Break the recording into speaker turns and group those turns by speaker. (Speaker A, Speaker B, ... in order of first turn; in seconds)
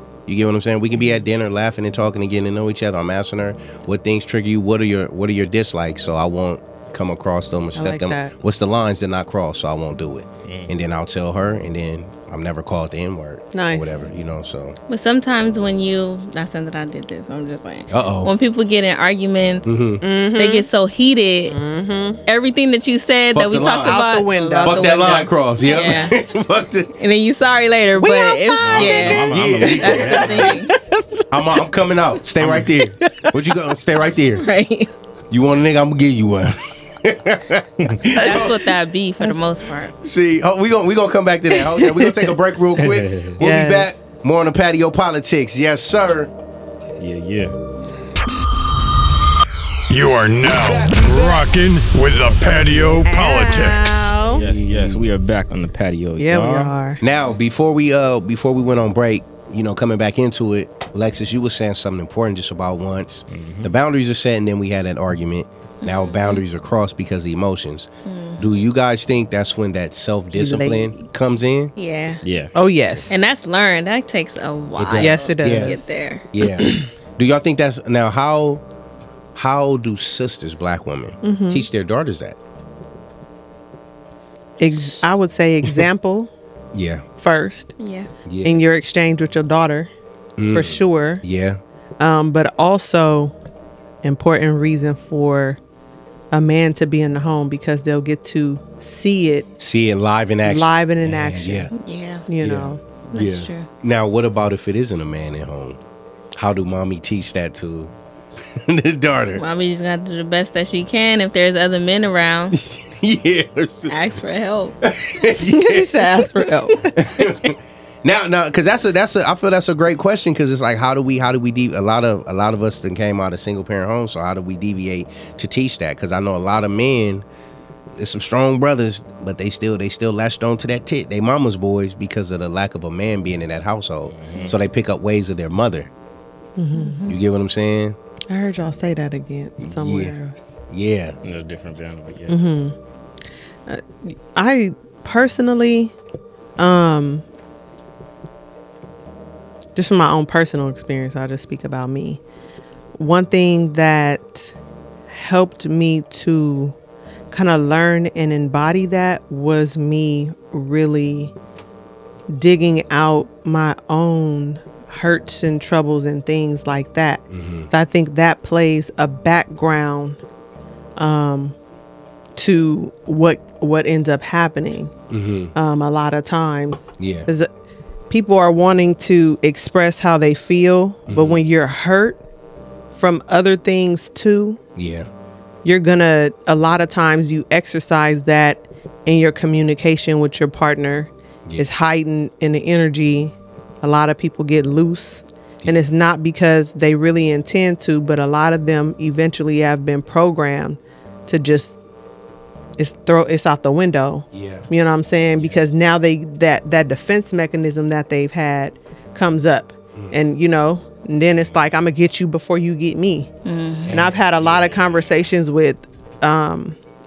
Speaker A: 0.3-14.8, 17.9-18.3, 19.6-20.0, 23.3-24.0, 24.6-26.9, 29.2-30.6, 31.3-34.5, 35.3-38.7, 40.0-46.3, 50.4-51.4, 52.5-52.9, 54.4-55.0, 57.0-71.7, 74.8-75.8, 76.3-78.6, 79.3-82.4, 86.7-87.0, 88.2-88.6, 90.4-91.6, 99.6-101.7, 102.4-105.8, 106.3-107.9, 108.5-109.4, 112.5-113.9, 114.8-116.4, 116.9-127.2, 128.0-135.9, 137.1-138.0, 139.6-140.2, 140.7-141.2, 167.3-167.7, 175.1-175.5, 177.0-177.3, 181.1-181.4, 184.8-185.1, 204.3-204.7, 213.8-214.8
Speaker B: 7.8-8.3, 13.5-14.1, 20.0-20.7, 21.5-22.2, 23.8-25.2, 28.0-29.3, 30.7-31.2, 41.6-42.3, 43.4-43.9, 52.6-54.4, 56.2-57.0, 70.3-71.0, 72.5-73.2, 75.0-75.9, 76.4-76.8, 81.2-81.7, 84.6-86.3, 87.2-87.7, 88.4-89.9, 90.5-91.2, 92.0-93.3, 94.0-95.6, 96.3-99.5, 100.5-101.7, 102.3-102.8, 115.5-117.0, 136.6-137.1, 138.3-140.5, 142.3-142.8, 143.7-145.9, 146.6-147.2, 149.8-152.2, 153.0-154.5, 155.1-156.8, 157.3-161.3, 162.3-170.2, 171.0-171.6, 172.3-174.9, 175.5-177.5, 178.1-182.2, 182.9-184.6, 185.6-201.8, 202.8-213.3, 213.9-216.8
Speaker C: 10.5-10.7, 28.6-30.6, 32.4-32.7, 42.8-43.4, 47.0-47.5, 54.3-56.7, 63.3-63.7, 72.2-72.5, 134.1-134.5, 141.2-142.4
Speaker D: 14.9-19.7, 20.3-21.6, 22.2-26.2, 27.0-30.7, 34.4-34.9, 38.2-40.0, 65.8-66.4, 68.0-68.5, 71.8-72.2, 73.1-76.3, 87.8-88.1, 101.7-102.2, 103.1-103.7, 109.3-112.6, 113.9-114.8, 136.8-137.2, 213.4-213.9
Speaker E: 49.9-54.2